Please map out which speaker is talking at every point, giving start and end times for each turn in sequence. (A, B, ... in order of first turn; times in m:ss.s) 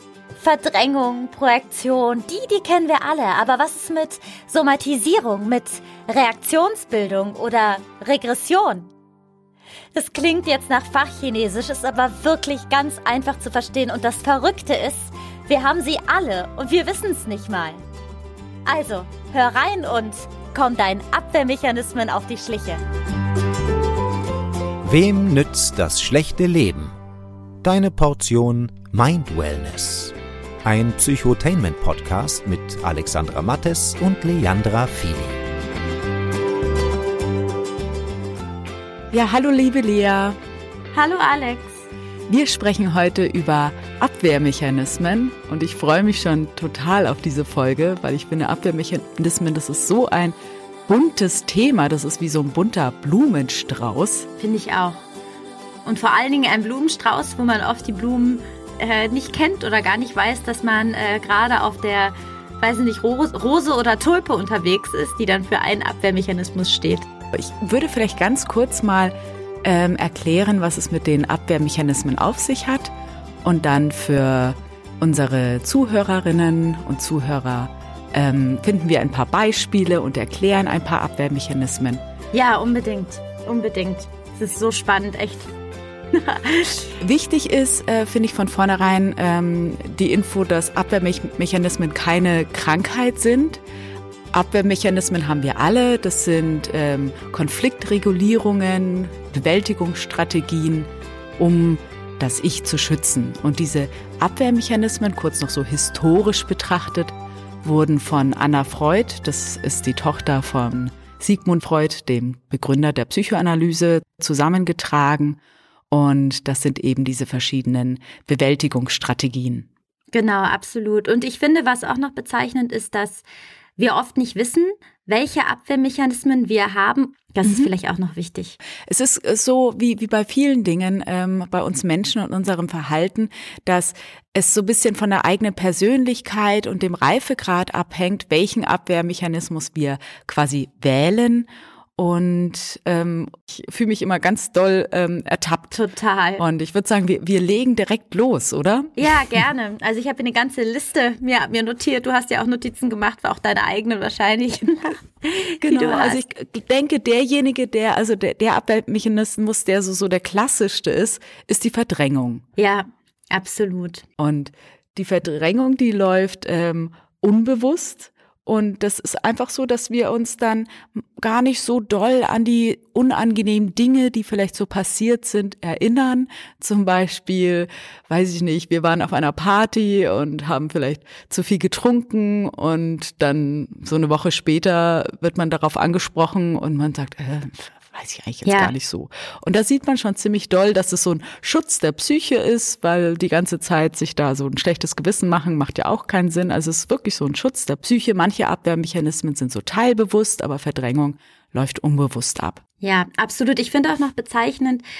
0:00.4-0:08.9 A
0:09.9-0:17.8 A
0:18.6-0:22.8 A
0:24.8-0:26.9 B
0:27.6-0:35.4 B
0:39.1-0:40.4 C
0:40.9-0:41.8 A
0:42.3-0:50.3 C
0:50.9-0:54.3 C
0:54.4-0:55.0 A
0:55.8-1:07.0 A
1:07.3-1:22.0 C
1:22.3-1:25.5 A
1:26.1-1:27.0 A
1:27.0-1:33.6 C
1:34.3-1:55.4 C
1:55.9-1:59.7 C
2:00.1-2:03.2 A
2:03.8-2:08.6 A
2:07.4-2:07.7 C
2:08.9-2:25.8 C
2:25.7-2:26.4 A
2:26.4-2:29.4 C
2:29.0-2:36.2 A
2:35.6-2:42.4 C
2:42.6-2:44.0 A
2:44.2-3:22.6 C
3:08.4-3:08.7 A
3:22.8-3:24.8 A